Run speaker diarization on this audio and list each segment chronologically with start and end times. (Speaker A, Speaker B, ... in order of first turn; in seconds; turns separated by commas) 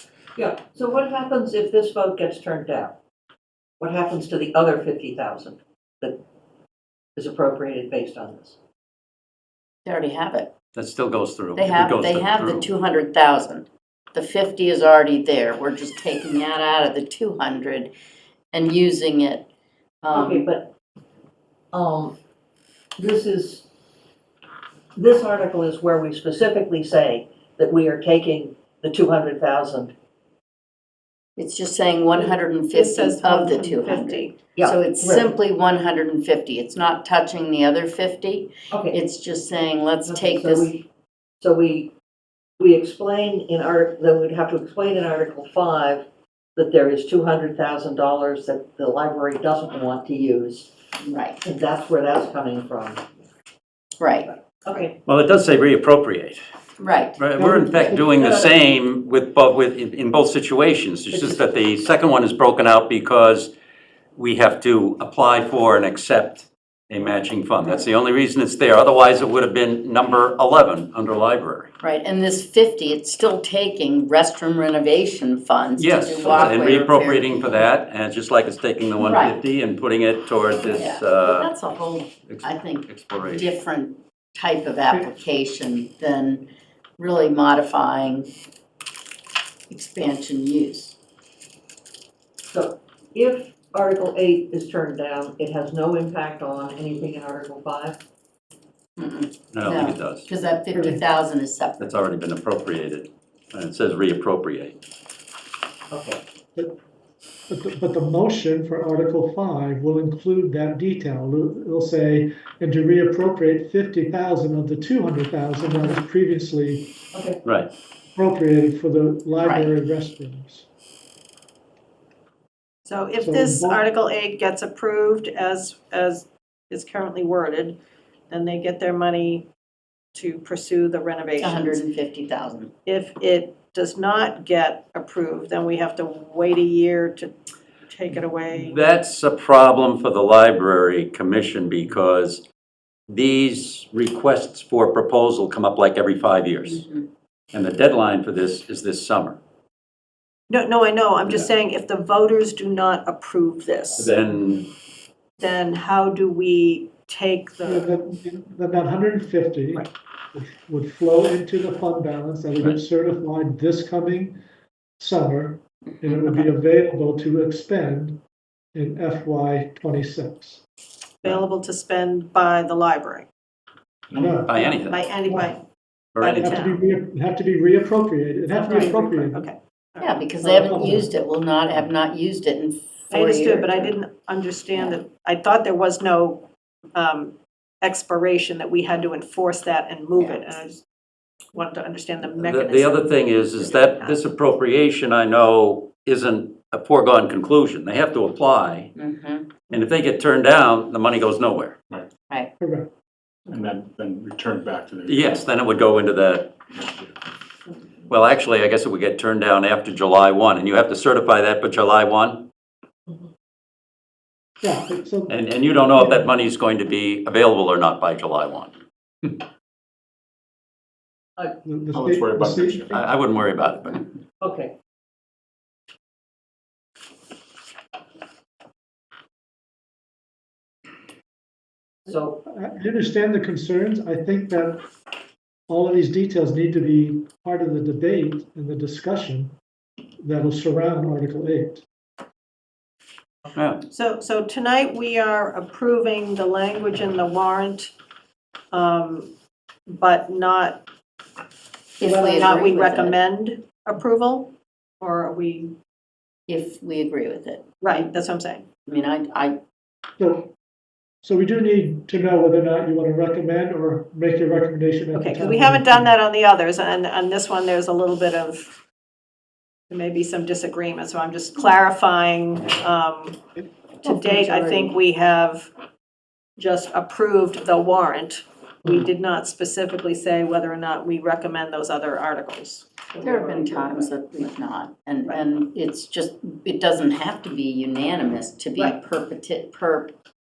Speaker A: 0.4-3.0, Speaker A: 3.8-6.2, Speaker A: 7.2-8.6, Speaker B: 9.9-10.5, Speaker C: 10.8-12.7, Speaker B: 11.6-17.9, Speaker B: 18.5-19.5, Speaker B: 20.0-20.5, Speaker A: 20.1-20.7, Speaker A: 21.7-22.1, Speaker A: 23.0-23.7, Speaker A: 24.9-29.9, Speaker B: 31.4-40.7, Speaker D: 32.7-34.5, Speaker A: 34.5-35.3, Speaker A: 38.7-39.0, Speaker A: 40.0-40.9, Speaker A: 41.4-41.9, Speaker A: 42.6-46.0, Speaker A: 46.6-50.7, Speaker B: 51.0-51.4, Speaker A: 51.4-53.0, Speaker B: 54.0-54.3, Speaker A: 54.6-55.0, Speaker C: 55.1-56.4, Speaker B: 56.8-57.3, Speaker C: 57.2-63.5, Speaker E: 57.4-58.5, Speaker C: 64.2-71.7, Speaker B: 71.8-77.6, Speaker C: 75.8-81.5, Speaker B: 79.0-79.4, Speaker B: 80.7-86.5, Speaker C: 82.3-83.5, Speaker B: 87.0-88.3, Speaker B: 89.7-91.0, Speaker A: 92.5-98.0, Speaker B: 99.0-101.9, Speaker C: 99.5-100.3, Speaker E: 100.7-101.0, Speaker C: 101.8-104.8, Speaker A: 105.9-106.2, Speaker E: 107.5-117.0, Speaker A: 117.1-117.4, Speaker C: 117.5-117.7, Speaker E: 118.2-120.7, Speaker B: 119.4-119.7, Speaker D: 122.9-127.8, Speaker E: 123.2-123.8, Speaker D: 128.3-129.4, Speaker D: 130.1-131.8, Speaker B: 131.4-132.7, Speaker D: 132.9-137.3, Speaker D: 137.9-138.8, Speaker C: 138.5-142.4, Speaker C: 143.1-146.8, Speaker B: 146.7-147.1, Speaker C: 147.5-149.4, Speaker D: 150.5-154.1, Speaker C: 154.0-154.7, Speaker D: 155.4-157.9, Speaker E: 157.7-164.4, Speaker E: 165.0-168.2, Speaker E: 168.7-170.6, Speaker D: 171.2-173.3, Speaker F: 174.1-174.4, Speaker E: 174.2-174.5, Speaker C: 174.5-175.0, Speaker D: 174.6-175.6, Speaker C: 176.2-176.6, Speaker D: 176.2-176.8, Speaker E: 176.4-179.5, Speaker D: 178.5-180.2, Speaker B: 180.0-183.9, Speaker E: 180.4-181.1, Speaker D: 183.1-190.8, Speaker B: 190.2-190.4, Speaker D: 191.5-194.2, Speaker C: 192.4-198.9, Speaker B: 199.0-199.5, Speaker C: 199.7-201.8, Speaker E: 202.6-202.9, Speaker F: 203.5-205.4, Speaker C: 205.1-206.6, Speaker C: 208.1-212.4, Speaker E: 214.6-215.4, Speaker C: 215.3-218.7, Speaker E: 216.0-216.3, Speaker E: 221.7-223.0, Speaker F: 221.9-223.0, Speaker C: 222.9-224.1, Speaker A: 224.4-224.7, Speaker A: 232.1-232.4, Speaker E: 232.5-234.8, Speaker E: 235.7-239.6, Speaker E: 240.2-241.8, Speaker C: 243.6-243.8, Speaker D: 243.9-247.9, Speaker D: 248.7-249.3, Speaker D: 249.9-250.8, Speaker B: 252.0-253.2, Speaker D: 252.0-255.7, Speaker B: 256.5-258.1, Speaker D: 257.8-258.7, Speaker B: 258.9-259.6, Speaker E: 260.2-260.5, Speaker E: 261.2-266.1, Speaker D: 265.1-268.7, Speaker D: 269.9-273.4, Speaker D: 274.0-275.7, Speaker E: 274.1-274.8, Speaker D: 276.6-283.9, Speaker B: 283.2-290.1